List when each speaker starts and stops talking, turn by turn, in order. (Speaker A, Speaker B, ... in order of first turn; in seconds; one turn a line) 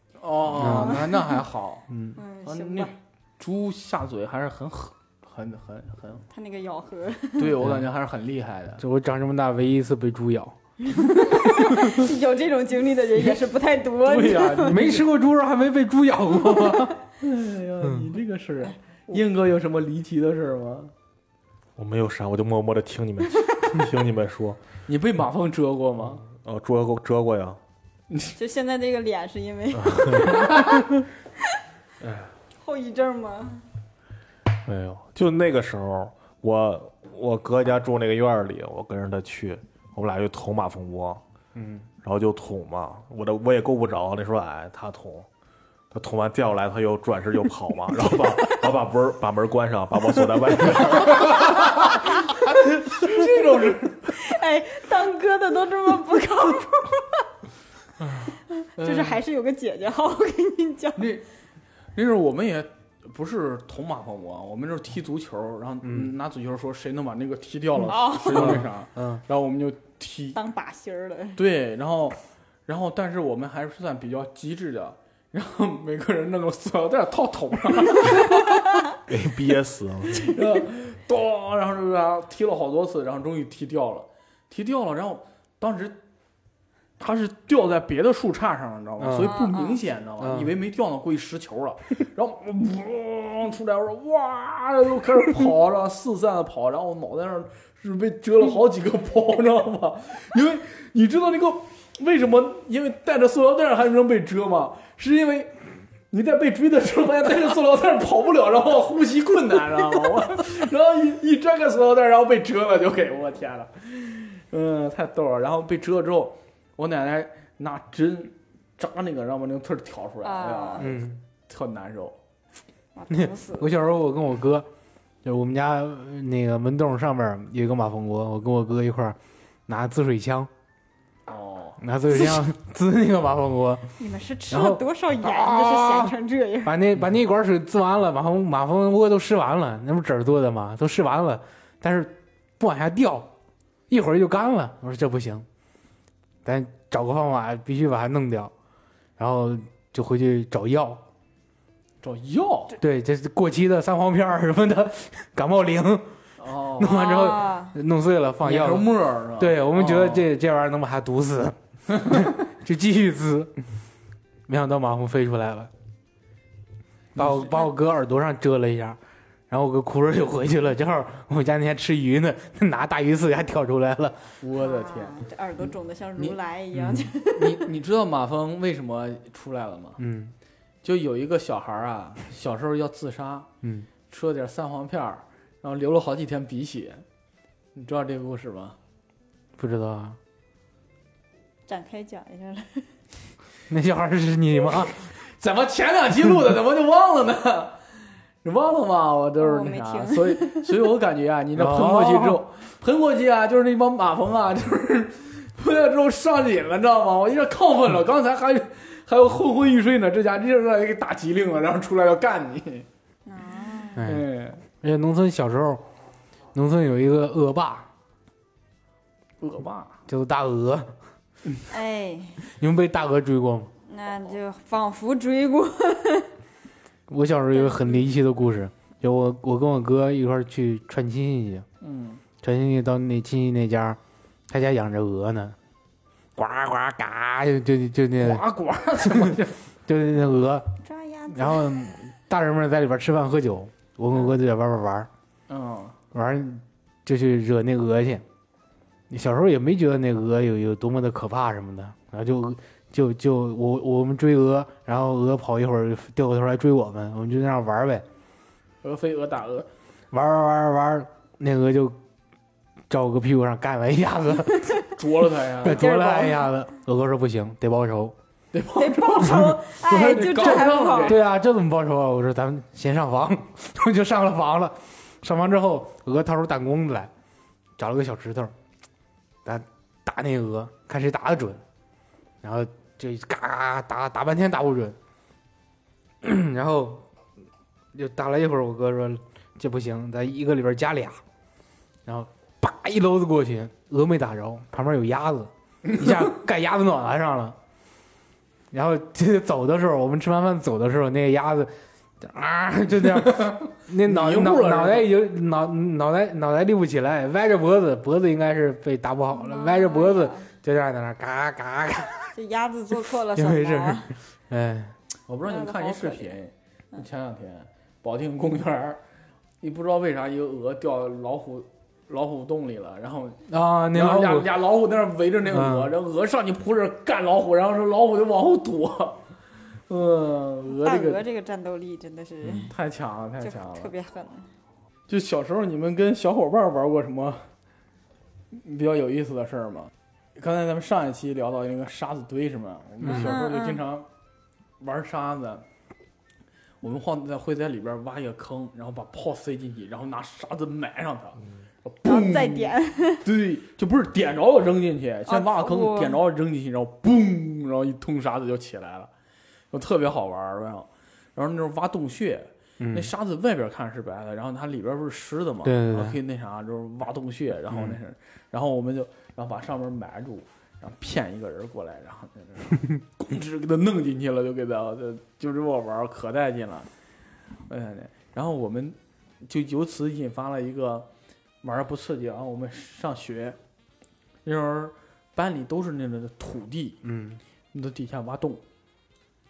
Speaker A: 0.2-1.9
Speaker B: 0.6-1.2
Speaker C: 0.7-1.0
Speaker B: 1.9-2.2
Speaker C: 2.2-2.9
Speaker A: 2.5-6.2
Speaker C: 6.3-7.5
Speaker A: 7.4-8.8
Speaker B: 7.6-7.9
Speaker B: 8.8-10.6
Speaker C: 10.8-14.8
Speaker A: 14.0-15.1
Speaker B: 14.6-16.9
Speaker C: 16.4-16.9
Speaker A: 17.2-20.9
Speaker D: 21.8-24.6
Speaker A: 24.9-26.2
Speaker D: 26.3-27.6
Speaker A: 28.1-28.4
Speaker C: 28.4-30.9
Speaker D: 29.8-30.6
Speaker D: 32.0-32.3
Speaker C: 32.6-33.6
Speaker D: 34.6-41.2
Speaker B: 41.6-41.9
Speaker D: 42.0-45.3
Speaker D: 45.9-52.0
Speaker A: 51.0-54.2
Speaker C: 51.8-52.4
Speaker C: 54.2-57.2
Speaker C: 58.8-61.1
Speaker A: 58.8-59.2
Speaker A: 61.0-61.2
Speaker A: 62.0-70.4
Speaker B: 65.8-66.1
Speaker C: 67.8-68.7
Speaker B: 68.3-69.2
Speaker C: 70.3-71.4
Speaker A: 71.4-78.5
Speaker D: 79.1-80.3
Speaker A: 80.2-86.0
Speaker A: 87.0-105.5
Speaker B: 89.0-89.3
Speaker C: 89.2-89.8
Speaker B: 90.2-90.5
Speaker A: 106.1-122.2
Speaker C: 120.2-120.9
Speaker B: 120.8-121.2
Speaker C: 123.0-123.7
Speaker B: 123.1-124.7
Speaker B: 125.2-130.5
Speaker A: 131.3-131.8
Speaker B: 131.8-133.9
Speaker C: 134.0-136.8
Speaker B: 134.5-143.3
Speaker B: 143.9-145.4
Speaker B: 146.4-148.5
Speaker B: 149.2-151.0
Speaker A: 152.0-152.8
Speaker B: 152.8-156.1
Speaker A: 156.4-157.0
Speaker B: 156.8-163.5
Speaker C: 156.8-157.8
Speaker A: 158.4-160.3
Speaker A: 161.9-162.3
Speaker B: 164.5-165.7
Speaker A: 167.2-167.6
Speaker B: 167.2-169.0
Speaker B: 169.5-174.3
Speaker A: 174.4-175.2
Speaker C: 174.6-177.6
Speaker B: 176.8-177.1
Speaker A: 177.3-180.0
Speaker B: 180.0-180.3
Speaker A: 180.8-183.5
Speaker B: 183.6-183.9
Speaker A: 184.1-187.0
Speaker A: 187.8-188.8
Speaker B: 189.6-190.2
Speaker C: 191.7-192.9
Speaker B: 193.7-195.0
Speaker A: 194.7-197.8
Speaker A: 198.4-212.9
Speaker C: 199.4-200.7
Speaker B: 201.6-202.4
Speaker C: 213.3-214.1
Speaker B: 214.0-215.8
Speaker A: 214.0-214.6
Speaker B: 216.5-217.9
Speaker A: 219.4-219.9
Speaker B: 220.1-220.9
Speaker C: 221.7-222.4
Speaker B: 222.5-223.7
Speaker C: 223.9-226.3
Speaker B: 227.1-231.7
Speaker C: 227.5-228.1
Speaker A: 231.8-232.2
Speaker B: 232.4-234.0
Speaker B: 234.5-235.6
Speaker B: 236.4-238.4
Speaker A: 238.2-239.6
Speaker B: 239.0-240.7
Speaker C: 240.8-241.9
Speaker B: 241.3-245.1
Speaker A: 245.5-246.0
Speaker B: 246.1-248.2
Speaker B: 249.1-258.1
Speaker A: 258.8-259.7
Speaker B: 260.1-262.0
Speaker B: 262.9-264.8
Speaker A: 265.0-265.9
Speaker B: 265.6-268.1
Speaker C: 265.6-266.5
Speaker A: 268.5-271.2
Speaker C: 268.8-271.2
Speaker B: 269.9-277.1
Speaker B: 277.8-278.5
Speaker B: 279.4-281.6
Speaker B: 282.4-285.0
Speaker B: 286.2-287.1
Speaker B: 287.9-291.2
Speaker B: 292.1-297.6
Speaker B: 298.7-312.3
Speaker A: 303.0-305.1
Speaker C: 309.3-310.5
Speaker C: 312.4-314.1
Speaker B: 313.4-314.9
Speaker A: 315.3-319.0
Speaker C: 315.5-316.4
Speaker A: 319.6-323.4
Speaker B: 323.5-324.5
Speaker A: 323.9-329.2
Speaker B: 325.5-325.9
Speaker A: 329.9-331.2
Speaker C: 330.7-332.7
Speaker A: 332.6-333.9
Speaker C: 333.4-334.5
Speaker A: 335.1-337.5
Speaker A: 338.5-344.1
Speaker C: 343.0-343.8
Speaker A: 344.8-345.6
Speaker A: 346.8-359.1
Speaker C: 352.0-353.2
Speaker C: 355.3-356.2
Speaker A: 359.7-376.9
Speaker B: 362.8-363.1
Speaker B: 365.6-366.2
Speaker B: 367.7-368.0
Speaker A: 377.7-381.1
Speaker A: 381.6-383.6
Speaker A: 384.4-387.0
Speaker B: 387.0-387.4
Speaker A: 387.7-388.6